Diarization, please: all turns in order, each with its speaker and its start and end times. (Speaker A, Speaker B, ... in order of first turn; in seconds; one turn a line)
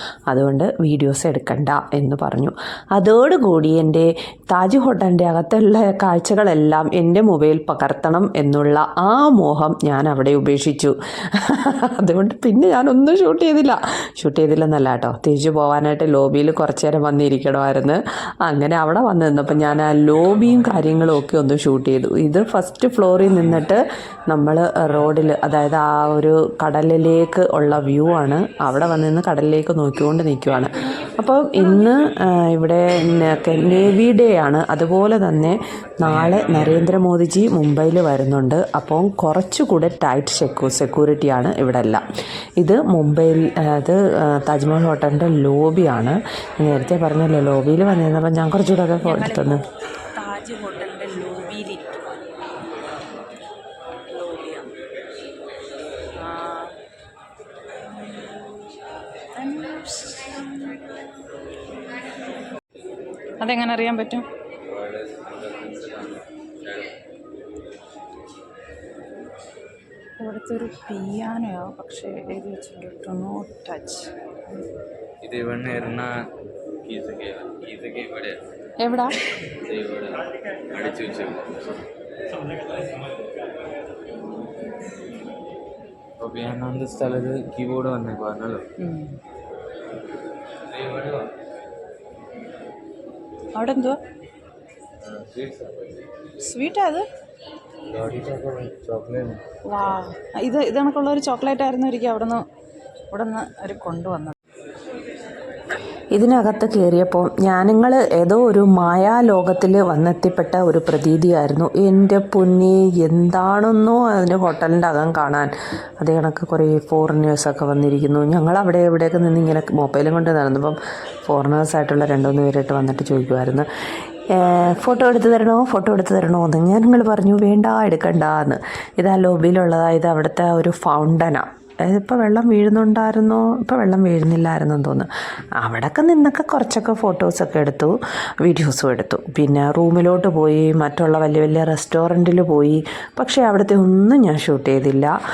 Speaker A: 0.3-42.0
Speaker A: 42.6-49.6
Speaker B: 49.0-52.1
Speaker B: 54.0-54.7
Speaker B: 56.1-56.7
Speaker B: 59.3-60.7
Speaker B: 63.4-64.2
Speaker C: 64.6-66.9
Speaker B: 70.2-74.1
Speaker C: 75.2-76.1
Speaker C: 76.8-78.4
Speaker B: 78.8-79.2
Speaker C: 79.6-81.7
Speaker C: 86.2-88.6
Speaker B: 88.8-89.1
Speaker C: 90.7-91.3
Speaker B: 93.5-94.0
Speaker C: 95.0-96.0
Speaker B: 96.4-97.0
Speaker C: 97.9-99.4
Speaker B: 99.7-102.4
Speaker B: 103.1-104.3
Speaker A: 106.1-123.7
Speaker A: 124.3-135.1
Speaker A: 135.6-145.1